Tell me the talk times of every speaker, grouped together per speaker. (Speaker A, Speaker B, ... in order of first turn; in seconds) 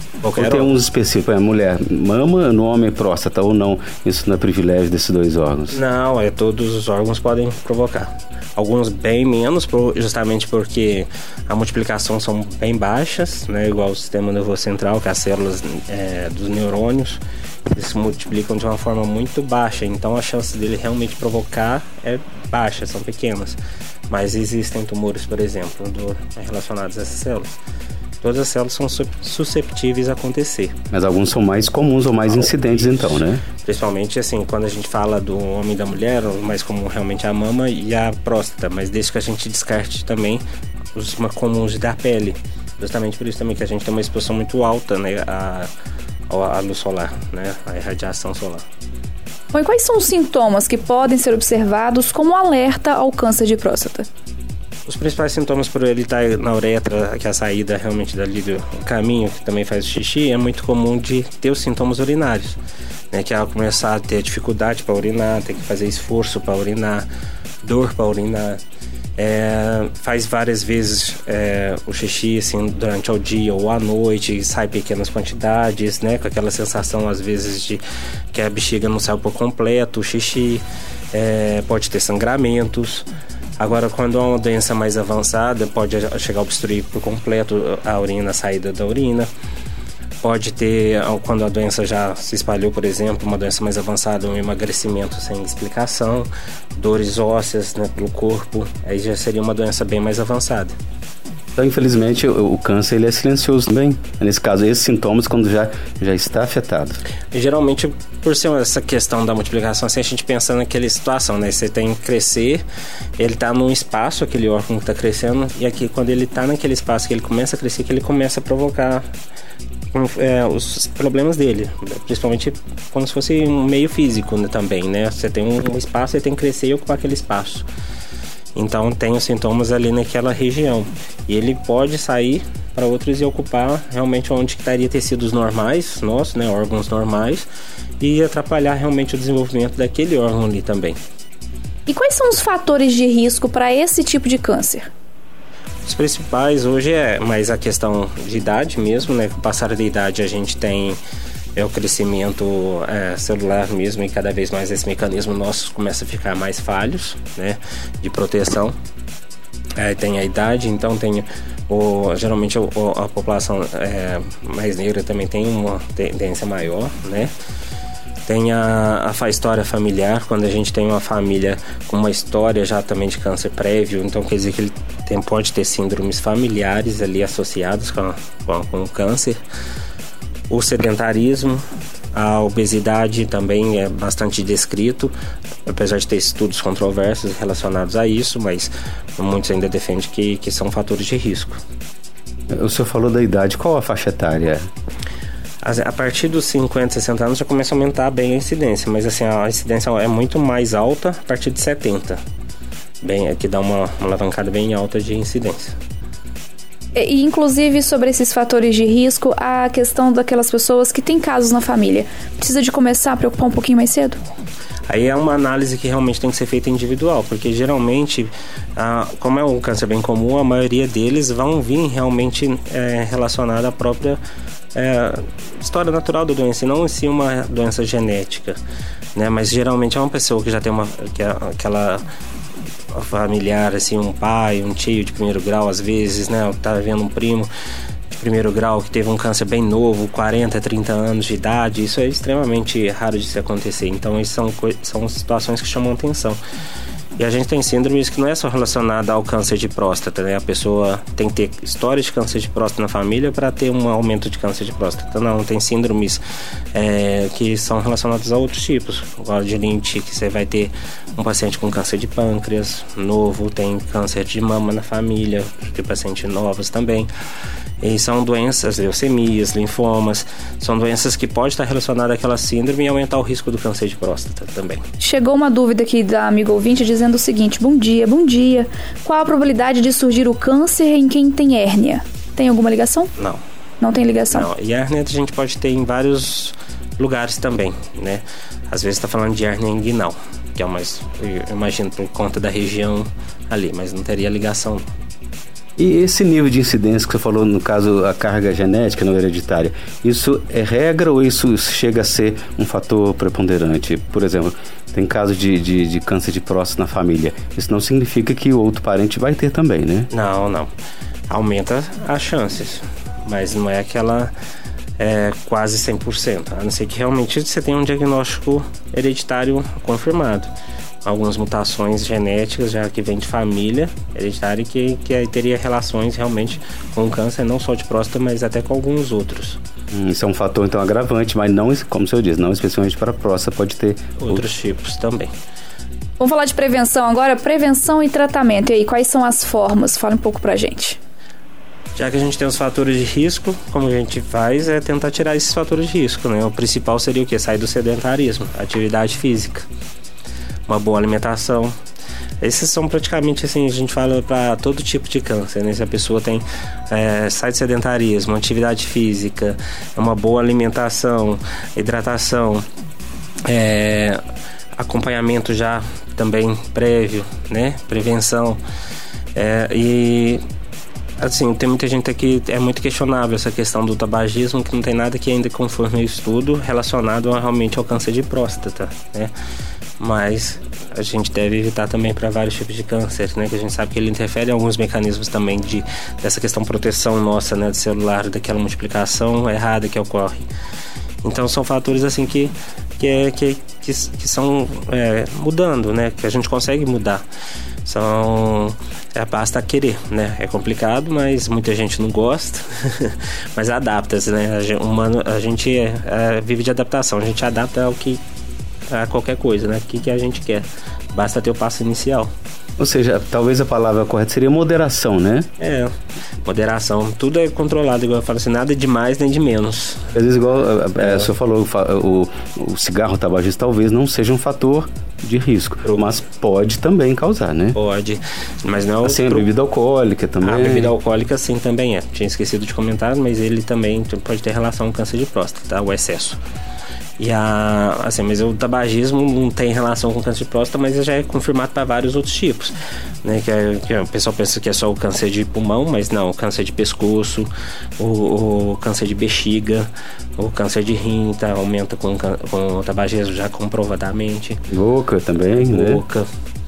Speaker A: 0.2-0.7, 5.7-27.6, 28.2-30.7, 32.2-40.4, 40.9-45.7, 46.3-48.6, 54.9-62.6, 63.1-67.1, 67.6-68.6, 69.2-77.8, 78.3-83.1, 83.6-89.3, 90.2-100.7, 107.3-112.6, 113.2-119.0, 119.9-127.7, 128.5-137.5, 138.0-141.0, 145.8-151.0, 151.5-158.7, 159.8-167.3, 168.2-179.4, 180.5-185.1, 185.7-191.6, 195.6-202.2, 203.0-205.7, 214.9-224.2, 224.7-228.6, 229.1-232.0, 232.9-237.5, 238.1-246.4, 247.2-256.2, 256.7-267.1, 267.8-274.8, 284.3-294.8, 310.1-310.7, 311.3-314.3, 315.0-320.5, 321.0-329.6, 334.2-335.3, 341.9-349.6, 350.7-351.7, 352.4-362.6, 363.4-364.2, 364.8-368.6, 369.3-370.4, 371.2-379.3, 380.0-390.4, 391.2-397.2, 397.8-408.2, 408.9-412.3, 415.6-415.9, 416.4-420.1, 421.0-421.3, 427.7-429.4, 430.4-436.4, 437.2-454.6, 455.5-456.2
Speaker B: 0.3-5.8, 30.9-33.4, 101.5-107.0, 192.5-194.7, 295.8-310.1, 329.9-334.4, 412.8-415.5, 420.1-427.8, 429.0-430.9, 454.7-456.0
Speaker C: 49.5-54.0, 141.9-144.9, 206.9-214.2, 275.0-283.1, 283.8-284.5, 336.2-341.0